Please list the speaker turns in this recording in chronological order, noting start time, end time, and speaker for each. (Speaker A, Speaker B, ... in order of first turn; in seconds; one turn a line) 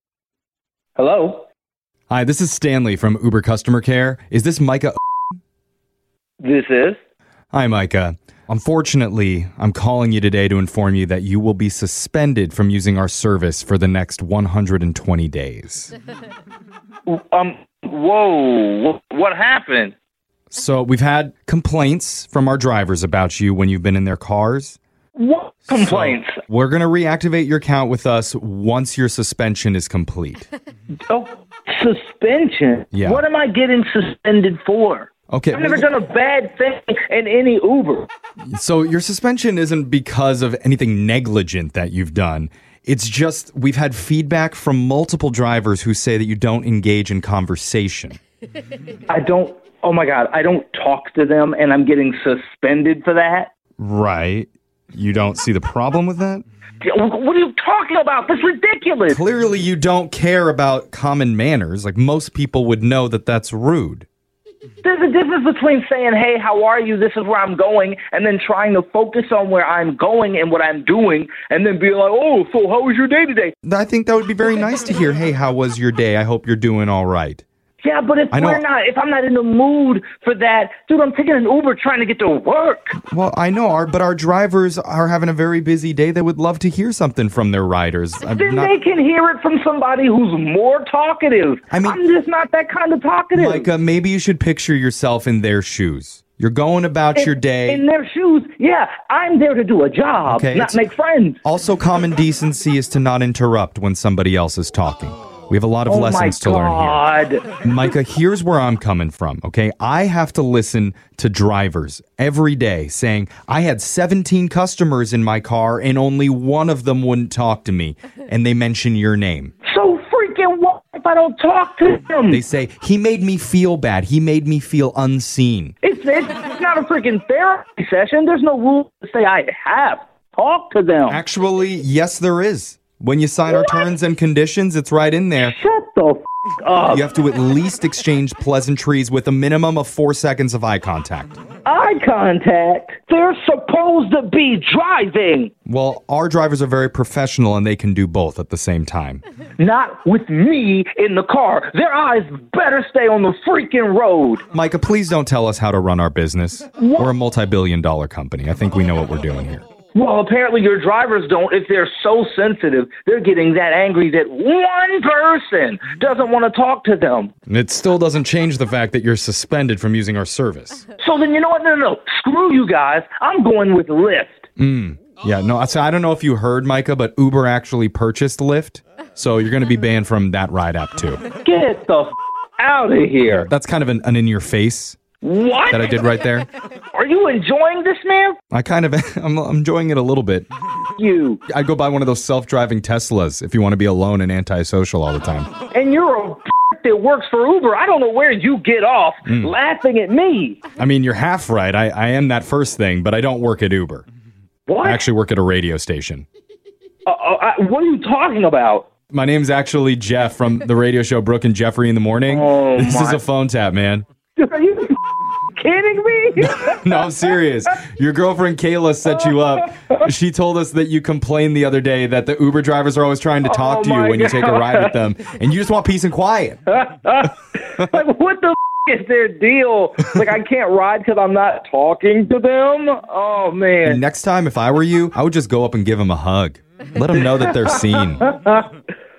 Speaker A: 1.0-1.5
Speaker B: 2.1-5.0
Speaker A: 6.4-7.0
Speaker B: 7.5-15.9
Speaker A: 17.1-19.9
Speaker B: 20.5-24.8
Speaker A: 25.2-26.4
Speaker B: 25.7-30.5
Speaker A: 31.1-38.1
Speaker B: 32.9-33.2
Speaker B: 35.3-35.9
Speaker B: 38.5-48.2
Speaker A: 49.1-53.5
Speaker B: 53.8-56.4
Speaker A: 56.8-59.2
Speaker B: 59.1-64.1
Speaker A: 64.8-73.5
Speaker B: 73.7-77.4
Speaker A: 77.8-83.0
Speaker B: 78.3-78.6
Speaker B: 83.1-88.7
Speaker A: 88.3-93.7
Speaker B: 91.7-92.0
Speaker B: 93.3-97.8
Speaker A: 97.2-101.4
Speaker B: 100.3-100.8
Speaker B: 101.5-107.1
Speaker A: 105.9-107.5
Speaker B: 107.6-119.5
Speaker A: 119.7-122.4
Speaker B: 122.3-125.8
Speaker A: 125.8-131.2
Speaker B: 131.1-135.6
Speaker A: 133.5-133.8
Speaker A: 135.4-137.1
Speaker B: 136.9-141.4
Speaker A: 141.7-145.5
Speaker B: 145.7-149.2
Speaker A: 149.6-154.4
Speaker B: 154.5-159.6
Speaker A: 156.8-157.1
Speaker A: 159.9-167.3
Speaker B: 167.5-170.9
Speaker A: 171.0-174.4
Speaker B: 174.6-181.2
Speaker A: 181.4-183.5
Speaker B: 183.3-185.0
Speaker A: 185.2-186.0
Speaker B: 185.7-186.5
Speaker A: 186.9-188.4
Speaker B: 188.5-190.5
Speaker A: 191.0-191.4
Speaker B: 191.5-195.5
Speaker A: 195.7-200.6
Speaker B: 199.2-199.5
Speaker B: 200.8-204.1
Speaker A: 204.7-205.0
Speaker B: 204.8-206.3
Speaker A: 207.1-208.9
Speaker B: 209.1-214.1
Speaker A: 212.3-213.2
Speaker A: 214.4-215.0
Speaker A: 215.6-217.1
Speaker B: 216.6-226.6
Speaker A: 219.1-220.0
Speaker A: 223.4-225.0
Speaker A: 226.7-234.0
Speaker B: 233.8-238.3
Speaker A: 237.2-238.7